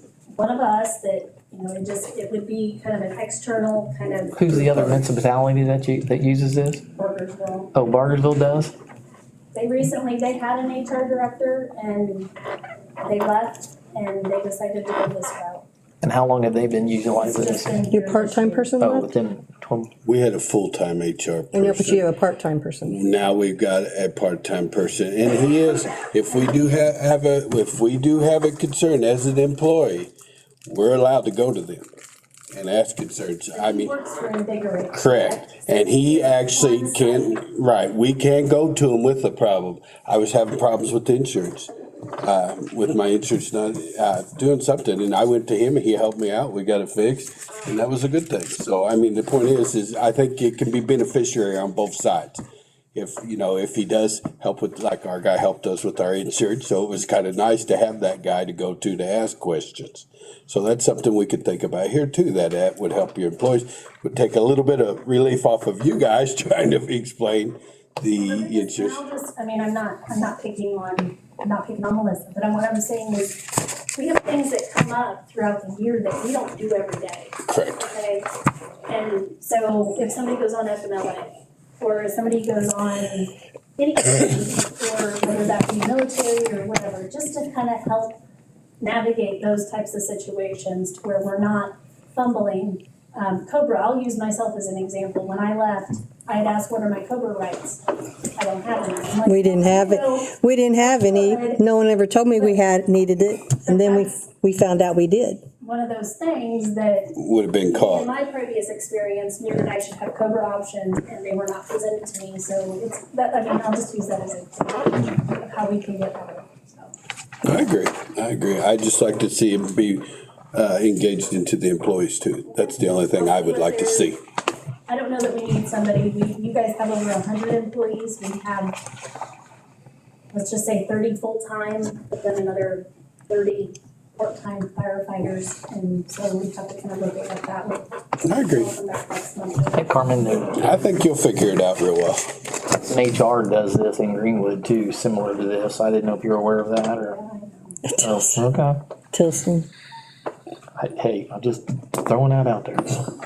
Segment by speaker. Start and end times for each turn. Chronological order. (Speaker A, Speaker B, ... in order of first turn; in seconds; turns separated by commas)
Speaker A: 0.3-4.3, Speaker B: 4.3-6.8, Speaker C: 4.5-5.0, Speaker A: 7.0-7.7, Speaker B: 7.7-8.7, Speaker A: 9.5-12.3, Speaker A: 13.0-15.6, Speaker B: 16.0-17.8, Speaker A: 17.2-18.7, Speaker D: 17.9-19.1, Speaker B: 18.8-19.9, Speaker C: 20.0-22.1, Speaker D: 21.5-23.0, Speaker C: 22.8-30.1, Speaker C: 30.6-31.9, Speaker C: 32.5-33.9, Speaker A: 33.5-37.4, Speaker C: 34.9-41.7, Speaker C: 42.2-52.4, Speaker C: 52.9-69.0, Speaker A: 68.2-78.3, Speaker C: 77.5-77.8, Speaker A: 78.9-88.2, Speaker A: 88.8-101.7, Speaker D: 99.2-105.4, Speaker A: 102.3-102.6, Speaker A: 103.7-104.1, Speaker A: 105.6-107.1, Speaker C: 107.1-108.1, Speaker A: 107.7-116.9, Speaker C: 117.5-124.2, Speaker A: 122.5-124.2, Speaker A: 124.9-128.8, Speaker A: 130.3-140.6, Speaker C: 138.2-138.7, Speaker B: 139.7-140.7, Speaker C: 140.5-142.2, Speaker B: 142.8-147.2, Speaker A: 147.0-147.8, Speaker D: 147.8-148.2, Speaker B: 148.0-148.8, Speaker D: 149.1-149.7, Speaker B: 150.8-153.1